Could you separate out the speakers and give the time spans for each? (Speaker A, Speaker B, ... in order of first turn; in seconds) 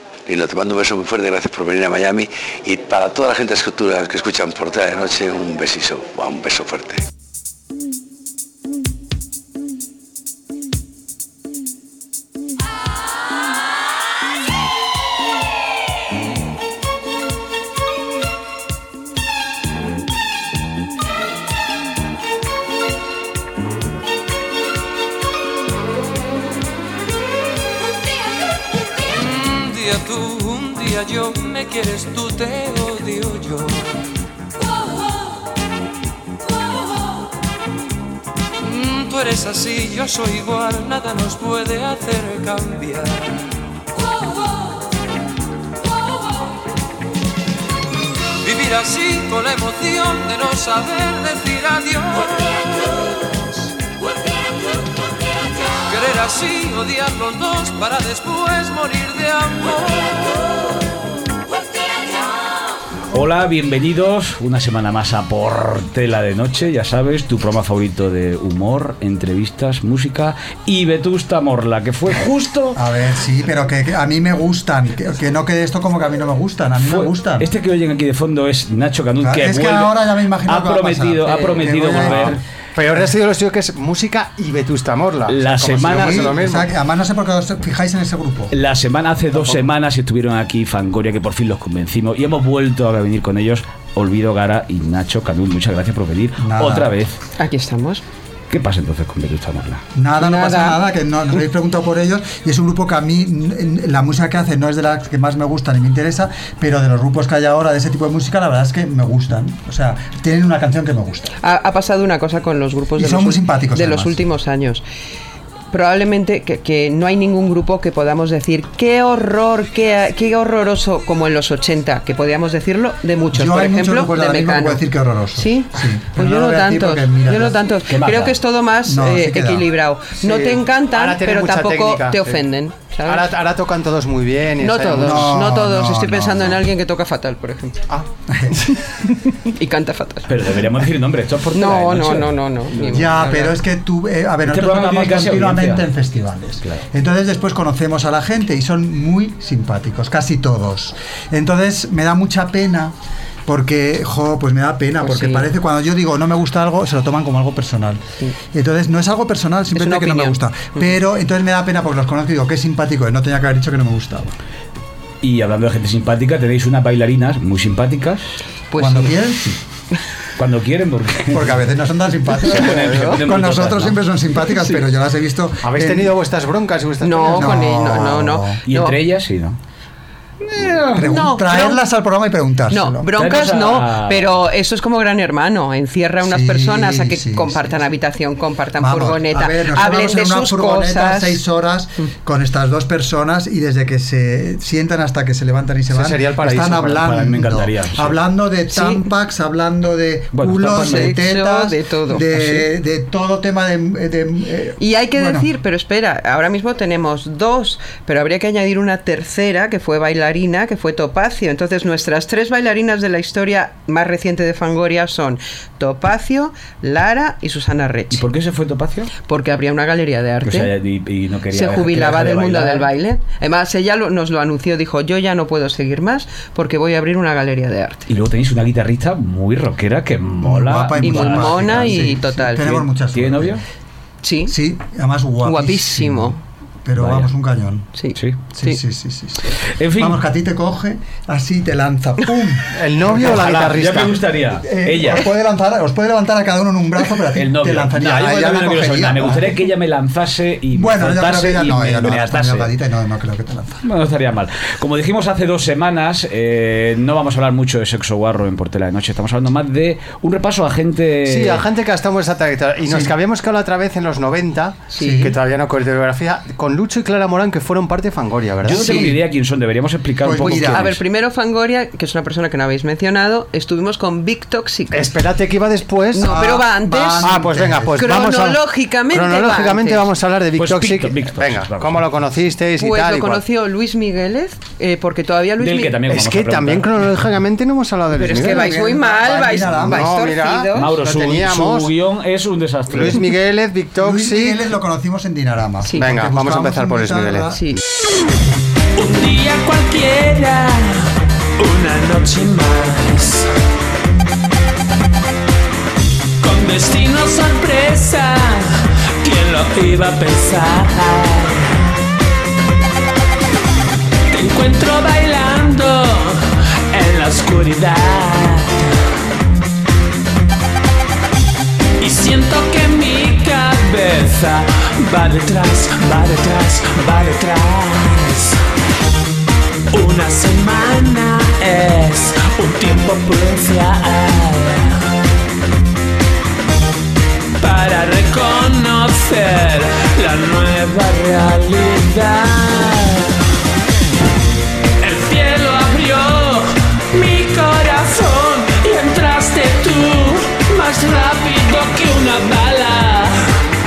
Speaker A: 0.3-7.0
Speaker B: 29.1-33.9, 38.6-43.5, 48.4-52.9, 55.9-60.2
Speaker C: 63.1-72.8, 76.8-82.4, 85.3-86.4, 88.5-97.2, 98.5-99.8, 127.9-128.3, 140.3-143.2, 144.4-145.8, 165.2-168.3, 170.4-171.6, 172.4-174.0, 178.7-179.6, 180.6-181.1, 183.1-184.3, 197.0-198.2, 200.3-201.2, 218.1-219.1, 220.4-222.9, 228.1-232.0, 233.1-233.6, 236.9-237.3, 239.7-240.2, 243.0-245.3, 247.3-252.7, 253.8-261.6, 268.6-271.0, 280.5-282.1, 285.6-287.2, 290.7-293.3
Speaker D: 72.7-77.5, 79.2-82.4, 85.9-88.5, 96.4-96.9, 99.9-111.3, 113.0-114.3, 123.3-127.6, 128.8-129.7, 135.0-136.6, 138.3-138.6, 142.8-152.9, 153.4-158.0, 158.5-164.3, 168.8-169.6, 171.3-176.2, 177.3-178.6, 180.5-183.1, 186.2-187.8, 188.8-205.5, 230.4-233.6, 234.4-237.9, 238.5-243.4, 244.6-249.7, 250.7-253.8, 262.8-263.1, 265.0-265.4, 268.7-269.2, 270.2-270.9, 276.1-278.2, 288.2-290.2, 294.0-297.6
Speaker E: 81.9-86.7, 130.2-132.4, 133.0-135.3, 175.6-177.7, 195.9-197.1, 242.7-244.2, 261.2-269.0, 274.9-276.6, 277.2-283.4, 286.1-288.8, 289.6-291.9, 292.9-294.6, 295.9-297.6
Speaker F: 97.4-98.0, 100.2-100.8, 111.4-114.8, 115.7-133.3, 134.6-137.8, 139.4-140.3, 141.5-143.6, 155.0-155.5, 159.7-160.8, 168.7-169.1, 177.0-179.0, 181.0-181.8, 182.7-191.4, 198.7-199.1, 200.7-202.7, 204.8-218.2, 219.3-220.7, 221.5-228.1, 231.0-232.8, 234.2-234.5, 235.4-236.4, 238.0-238.8, 264.9-265.3, 270.7-275.1, 276.1-277.4, 278.0-280.1, 282.8-286.0, 288.1-290.9, 295.8-296.1, 297.5-297.8
Speaker G: 298.9-303.5, 306.4-311.9, 314.3-319.0, 322.0-328.6, 329.9-335.0, 337.6-343.4, 345.0-353.6